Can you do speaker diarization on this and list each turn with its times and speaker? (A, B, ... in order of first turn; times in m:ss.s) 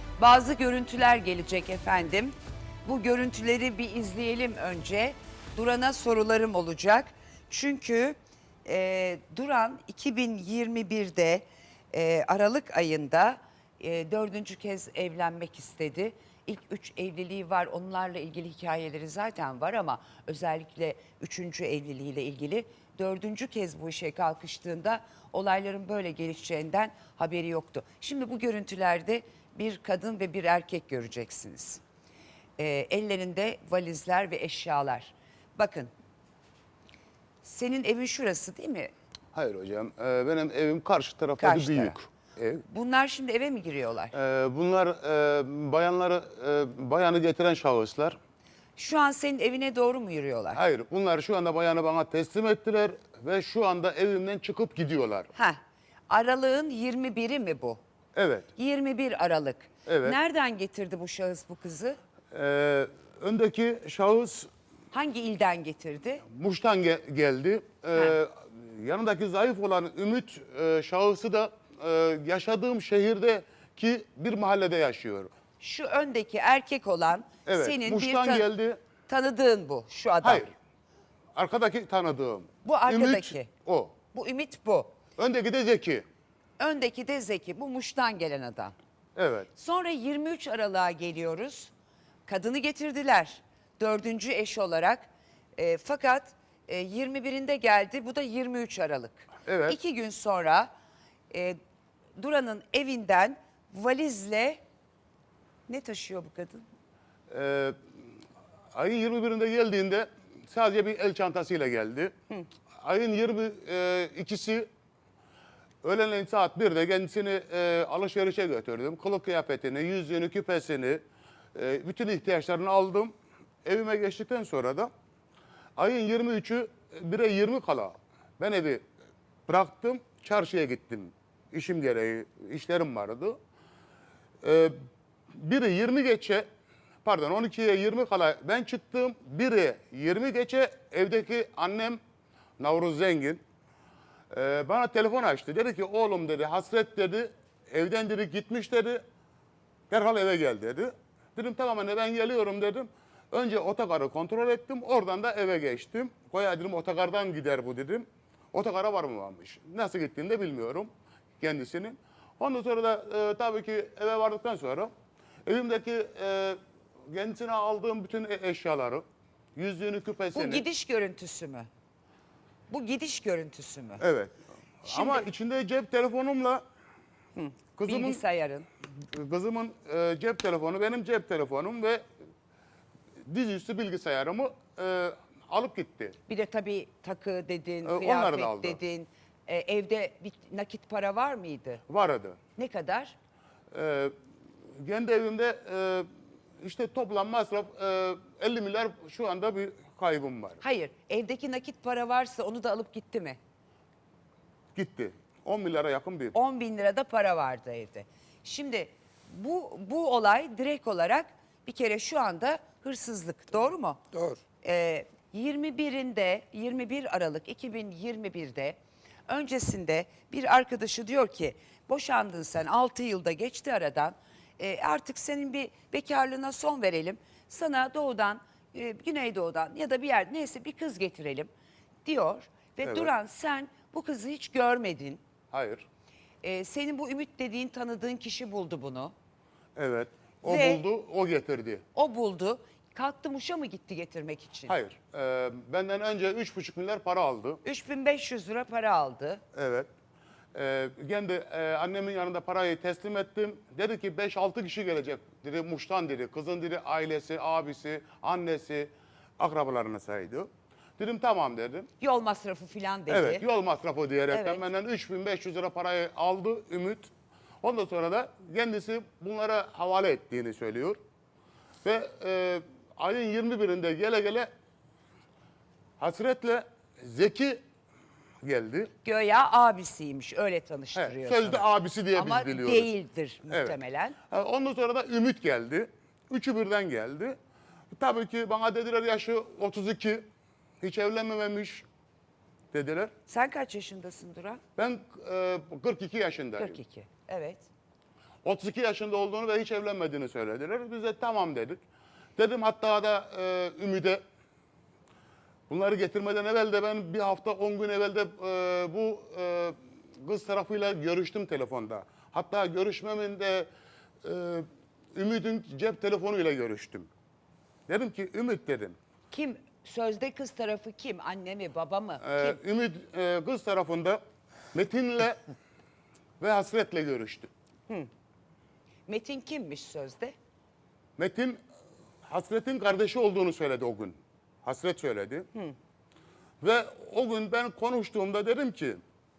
0:00.2-0:31.8 A
0:32.6-0:35.9 A
0:37.4-0:38.9 A
0:39.3-0:42.6 B
0:41.4-0:41.9 A
0:42.7-0:44.1 A
0:44.1-0:48.2 B
0:48.8-0:50.6 A
0:50.5-0:55.3 B
0:55.3-0:57.8 A
0:58.1-0:58.5 B
0:58.6-1:02.0 A
0:59.8-1:00.2 B
1:02.3-1:04.5 B
1:04.9-1:06.2 A
1:06.2-1:15.3 B
1:15.6-1:18.5 A
1:17.5-1:18.8 B
1:19.1-1:20.5 A
1:20.2-1:20.5 B
1:21.3-1:23.9 B
1:22.6-1:23.5 A
1:24.1-1:24.9 A
1:25.2-1:26.0 B
1:26.6-1:28.7 A
1:29.2-1:29.5 B
1:29.5-1:31.7 A
1:32.3-1:40.7 A
1:39.4-1:39.8 B
1:41.3-1:41.6 A
1:42.2-1:44.6 A
1:45.7-1:46.6 A
1:47.3-1:47.8 B
1:48.7-1:52.1 B
1:52.8-1:54.7 B
1:55.8-2:01.0 B
2:01.5-2:03.1 B
2:03.6-2:04.9 B
2:05.8-2:08.8 B
2:09.5-2:13.4 B
2:14.4-2:14.7 B
2:15.3-2:16.4 B
2:17.0-2:22.0 B
2:22.6-2:23.4 B
2:24.3-2:29.0 B
2:29.9-2:44.9 B
2:45.4-2:46.6 B
2:47.1-2:49.0 B
2:49.6-2:50.6 B
2:50.3-2:51.7 A
2:52.7-2:54.0 A
2:54.0-2:56.6 B
2:54.9-2:55.2 A
2:57.4-2:58.7 A
2:57.8-2:58.2 B
2:59.0-3:02.0 B
3:03.3-3:06.2 B
3:06.3-3:11.8 A
3:07.8-3:08.8 B
3:11.9-3:12.4 B
3:12.6-3:13.2 A
3:13.7-3:14.1 B
3:14.8-3:16.1 B
3:16.6-3:20.6 B
3:20.6-3:23.4 A
3:24.7-3:26.3 B
3:26.3-3:34.0 A
3:34.6-3:38.8 A
3:39.3-3:51.5 A
3:52.0-3:55.2 A
3:52.8-3:53.1 B
3:55.5-3:55.8 B
3:56.4-3:59.1 A
3:59.8-4:01.8 B
4:00.4-4:00.8 A
4:01.9-4:04.7 A
4:04.7-4:07.6 B
4:07.6-4:09.4 A
4:09.5-4:09.9 B
4:10.5-4:21.9 B
4:22.0-4:23.4 A
4:23.1-4:27.1 B
4:24.3-4:24.6 A
4:27.6-4:31.0 B
4:31.8-4:34.5 B
4:36.0-4:37.6 B
4:38.4-4:38.9 B
4:39.0-4:44.2 A
4:41.0-4:42.9 B
4:43.5-4:43.8 B
4:44.3-4:47.4 B
4:47.9-4:50.3 B
4:50.8-4:51.8 B
4:52.7-4:53.1 B
4:53.3-4:54.6 A
4:54.8-4:56.8 B
4:56.6-4:57.7 A
4:58.4-5:01.8 B
5:02.4-5:04.2 B
5:05.7-5:13.7 B
5:14.2-5:17.1 B
5:17.9-5:19.0 B
5:19.3-5:22.6 A
5:22.2-5:24.2 B
5:24.7-5:25.4 B
5:26.4-5:27.5 B
5:29.1-5:30.3 A
5:31.2-5:31.6 B
5:32.2-5:35.4 B
5:36.6-5:39.0 B